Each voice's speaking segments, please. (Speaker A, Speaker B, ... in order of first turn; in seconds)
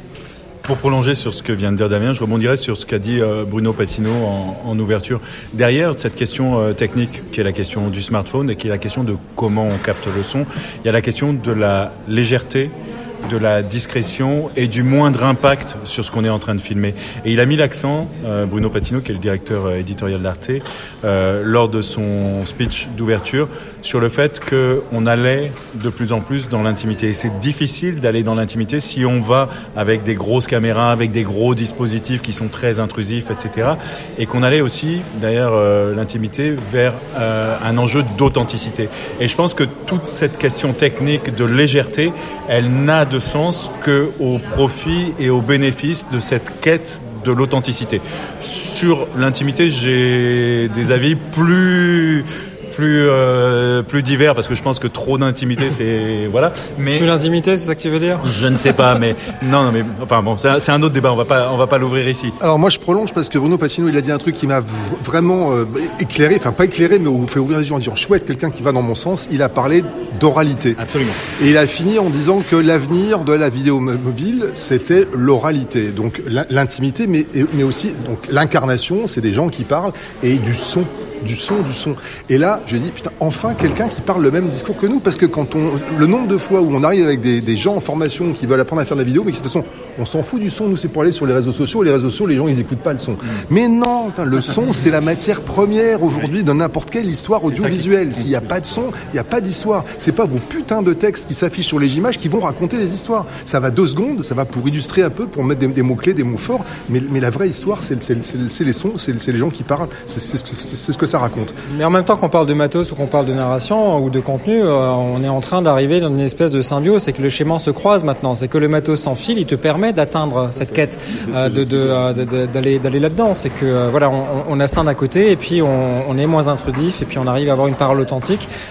Speaker A: 0.6-57.1, 58.2-62.4, 70.8-71.2
Speaker B: 56.9-58.3, 111.7-128.5
Speaker C: 62.4-111.6